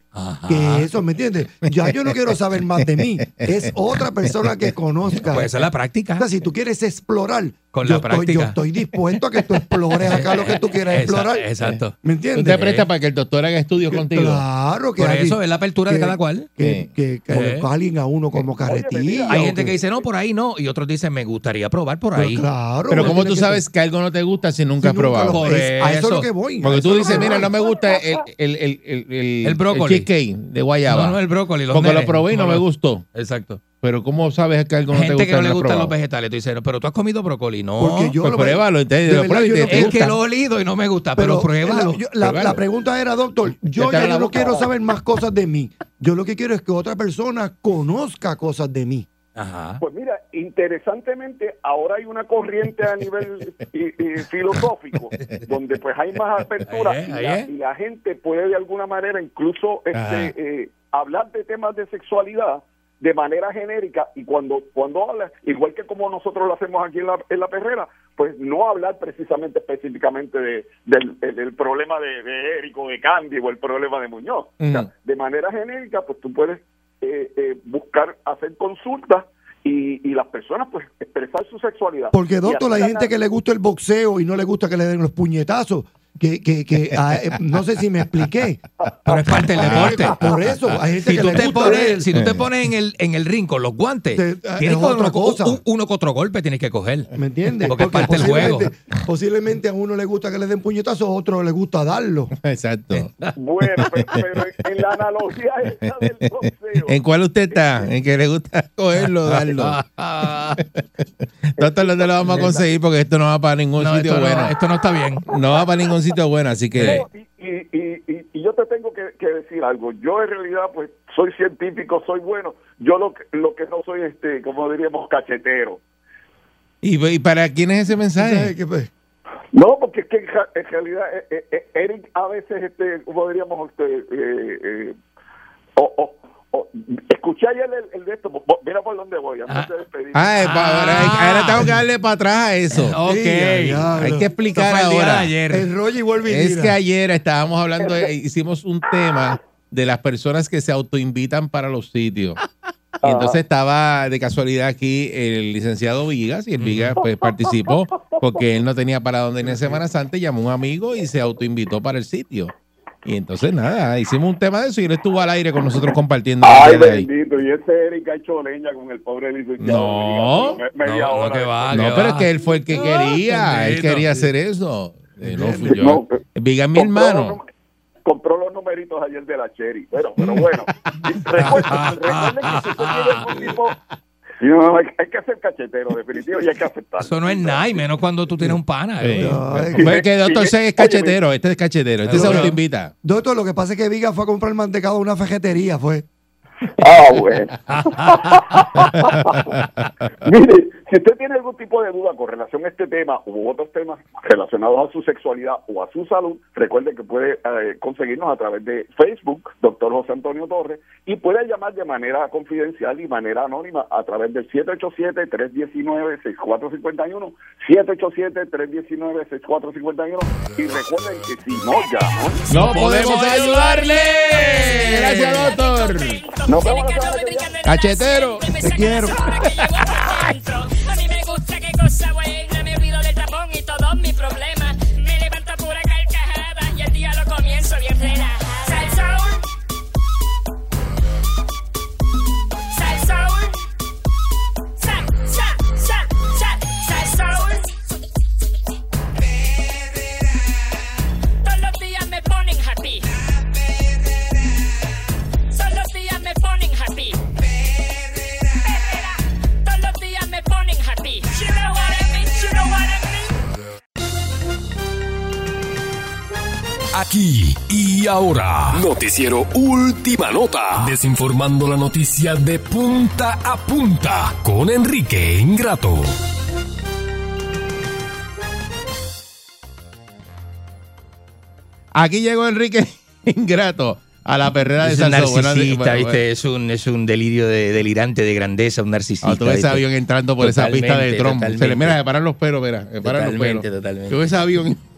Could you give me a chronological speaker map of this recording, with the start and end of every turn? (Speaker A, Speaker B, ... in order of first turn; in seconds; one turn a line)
Speaker A: 0.1-0.9
Speaker B: 0.5-5.5
Speaker C: 3.3-3.5
Speaker A: 5.2-6.3
Speaker B: 6.2-11.4
Speaker A: 7.7-8.6
Speaker A: 10.0-12.9
Speaker B: 12.0-12.6
Speaker C: 12.4-14.4
Speaker B: 13.9-19.8
Speaker A: 15.0-16.5
Speaker C: 16.6-16.9
Speaker A: 17.3-17.7
Speaker D: 18.6-20.0
Speaker A: 19.3-22.4
Speaker B: 22.2-23.6
Speaker C: 22.9-25.6
Speaker B: 24.8-27.5
Speaker A: 25.2-26.3
Speaker C: 26.6-31.2
Speaker A: 27.0-27.5
Speaker D: 27.1-28.0
Speaker A: 29.4-30.1
Speaker A: 30.9-33.6
Speaker C: 31.7-33.0
Speaker C: 33.8-35.9
Speaker A: 34.9-38.1
Speaker B: 37.8-40.0
Speaker C: 38.2-40.2
Speaker A: 39.7-42.0
Speaker B: 41.2-49.0
Speaker C: 42.2-42.6
Speaker C: 43.6-44.7
Speaker A: 49.4-49.8
Speaker D: 49.8-83.1
Speaker A: 56.6-57.5
Speaker C: 60.0-60.3
Speaker C: 74.6-74.9
Speaker B: 82.1-88.6
Speaker A: 89.0-90.3
Speaker C: 89.5-92.5
Speaker B: 89.6-92.0
Speaker A: 91.0-97.1
Speaker B: 94.2-95.6
Speaker B: 97.1-102.3
Speaker A: 97.6-98.7
Speaker C: 97.9-98.5
Speaker C: 102.3-103.1
Speaker A: 102.9-103.3
Speaker D: 103.4-107.0
Speaker C: 103.8-104.1
Speaker C: 106.8-109.8
Speaker D: 107.5-107.9
Speaker A: 109.0-110.6
Speaker C: 110.6-114.5
Speaker D: 111.6-112.1
Speaker A: 112.2-112.6
Speaker A: 113.8-115.3
Speaker C: 115.3-117.0
Speaker A: 116.8-117.0
Speaker D: 116.8-125.8
Speaker C: 126.8-128.5
Speaker B: 128.2-128.9
Speaker D: 129.5-134.9
Speaker D: 135.8-140.4
Speaker C: 140.1-143.0
Speaker A: 140.4-141.7
Speaker A: 142.7-144.0
Speaker B: 143.0-144.3
Speaker C: 143.9-145.4
Speaker A: 144.6-145.7
Speaker B: 145.5-146.8
Speaker C: 146.3-152.4
Speaker D: 147.8-148.1
Speaker D: 153.0-153.4
Speaker C: 153.0-162.5
Speaker A: 156.6-157.0
Speaker C: 163.1-167.1
Speaker D: 166.4-172.1
Speaker C: 169.6-170.6
Speaker A: 170.8-174.3
Speaker C: 171.7-177.4
Speaker B: 175.2-175.9
Speaker D: 175.7-176.2
Speaker D: 176.7-177.4
Speaker D: 178.0-183.7
Speaker C: 181.3-181.7
Speaker A: 181.4-183.3
Speaker D: 184.4-187.8
Speaker A: 187.0-189.4
Speaker C: 188.4-192.9
Speaker B: 189.2-189.9
Speaker D: 189.7-191.2
Speaker A: 192.1-192.6
Speaker B: 192.1-192.4
Speaker B: 193.0-196.1
Speaker D: 196.8-199.6
Speaker A: 197.7-198.8
Speaker C: 198.7-200.1
Speaker D: 200.2-222.4
Speaker C: 222.5-226.2
Speaker A: 222.6-223.6
Speaker E: 222.6-239.4
Speaker A: 224.3-225.4
Speaker D: 226.4-227.5
Speaker C: 227.6-229.9
Speaker B: 228.6-229.2
Speaker E: 242.7-243.6
Speaker E: 244.8-247.7
Speaker E: 251.4-253.1
Speaker E: 255.5-257.2
Speaker E: 258.6-263.3
Speaker F: 266.9-276.2
Speaker C: 281.9-286.2
Speaker A: 284.8-289.8
Speaker C: 289.2-294.8
Speaker A: 290.4-292.0
Speaker A: 293.0-294.2